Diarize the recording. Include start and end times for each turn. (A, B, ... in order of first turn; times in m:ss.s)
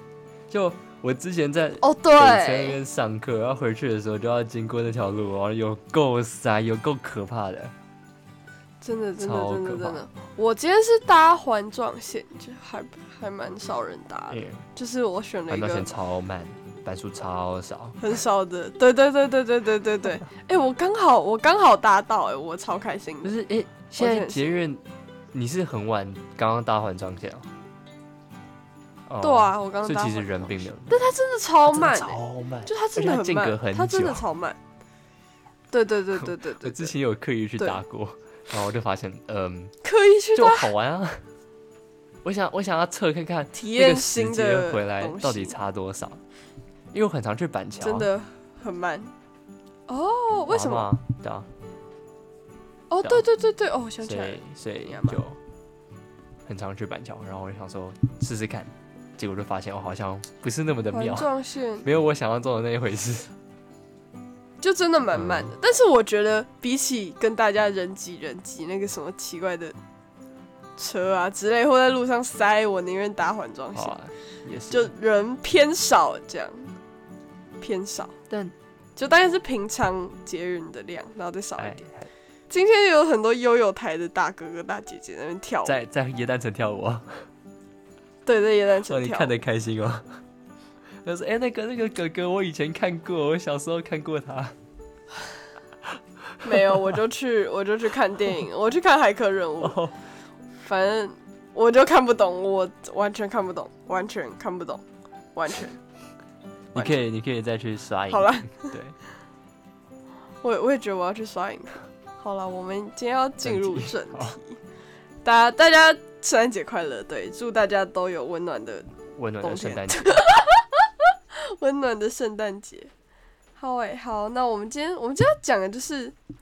0:00.5-0:07.7 A
0:01.8-0:02.8 B
0:08.8-0:15.9 B
0:09.2-0:10.0 A
0:14.3-0:14.6 A
0:15.5-0:18.0 A
0:18.0-0:23.3 B
0:23.2-0:27.4 A
0:24.0-0:24.7 B
0:29.1-0:31.0 A
0:29.2-0:34.6 B
0:31.7-0:34.2 A
0:35.7-0:36.9 B
0:36.3-0:39.7 A
0:39.8-0:40.7 B
0:40.4-0:41.2 A
0:42.2-0:46.2 A
0:43.5-0:45.6 B
0:46.9-0:48.1 A
0:47.8-0:49.1 B
0:49.9-0:50.9 B
0:50.5-0:51.5 A
0:52.9-0:55.2 B
0:54.0-0:55.4 A
0:56.4-1:01.3 A
1:00.9-1:01.9 B
1:01.8-1:03.3 A
1:04.6-1:09.8 B
1:05.1-1:05.5 A
1:10.8-1:14.0 B
1:13.8-1:14.9 A
1:14.7-1:16.7 B
1:17.6-1:18.2 B
1:19.0-1:21.8 B
1:21.6-1:22.1 A
1:22.5-1:25.8 B
1:25.6-1:27.1 A
1:28.2-1:29.4 B
1:28.9-1:30.0 A
1:31.0-1:34.5 A
1:36.4-1:36.9 A
1:36.4-1:39.8 B
1:39.6-1:39.9 A
1:40.6-1:44.8 B
1:45.4-1:45.8 B
1:46.7-1:48.9 A
1:46.8-1:47.0 B
1:48.1-1:48.8 B
1:50.4-1:54.6 B
1:53.4-1:54.4 A
1:55.2-1:58.9 B
1:59.2-2:00.2 A
1:59.4-2:02.9 B
2:03.6-2:06.2 B